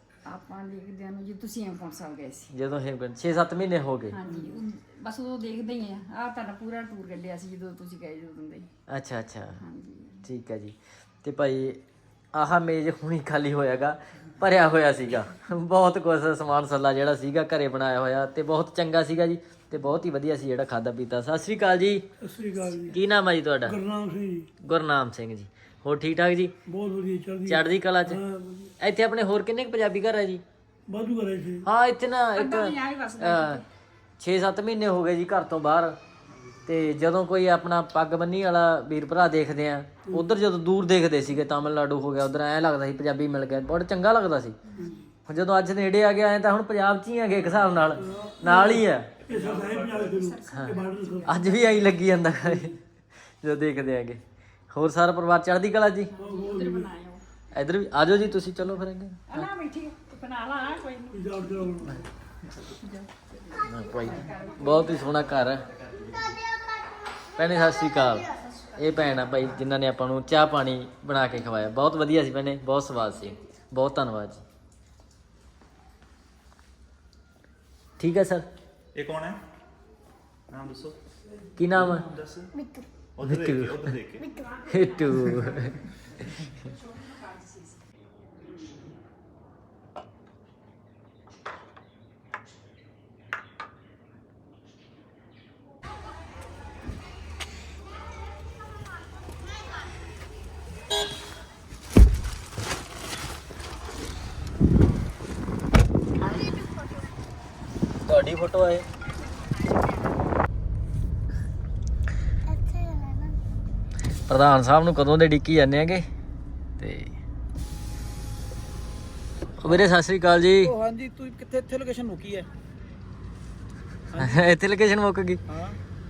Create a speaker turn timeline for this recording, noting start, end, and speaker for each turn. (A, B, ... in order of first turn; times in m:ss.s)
0:00.3-0:02.5 A
0:02.5-0:04.2 B
0:04.1-0:08.7 A
0:08.9-0:09.6 B
0:09.6-0:10.2 A
0:10.2-0:11.8 B
0:12.4-0:22.0 B
0:22.2-0:23.0 C
0:22.9-0:23.8 B
0:23.7-0:24.5 C
0:24.7-0:26.5 B
0:26.7-0:28.7 C
0:27.5-0:28.2 B
0:28.8-0:30.4 B
0:30.9-0:31.7 C
0:31.6-0:33.6 B
0:32.4-0:33.6 A
0:34.2-0:36.0 B
0:36.7-0:44.6 B
0:45.3-0:49.1 B
0:48.0-0:51.3 C
0:49.3-0:51.9 A
0:51.3-0:52.8 B
0:53.4-0:54.2 B
0:54.7-0:56.1 B
0:56.2-0:57.2 A
0:56.2-0:56.9 C
0:57.6-0:59.4 B
0:59.3-1:01.3 A
1:01.1-1:02.0 C
1:02.8-1:05.2 A
1:03.7-1:05.6 B
1:07.4-1:14.4 B
1:18.0-1:18.5 B
1:19.0-1:19.4 D
1:20.5-1:21.0 D
1:21.6-1:22.0 B
1:21.7-1:22.5 D
1:22.6-1:22.8 E
1:23.2-1:24.3 D
1:23.2-1:23.9 B
1:24.2-1:25.0 E
1:24.7-1:25.7 B
1:26.6-1:27.8 A
1:46.2-1:47.2 E
1:48.1-1:48.9 B
1:52.5-1:53.4 E
1:54.3-1:56.1 B
1:56.8-1:57.1 B
1:59.6-2:00.7 B
2:00.6-2:02.5 F
2:04.1-2:04.4 F
2:04.2-2:05.4 B
2:05.5-2:05.8 F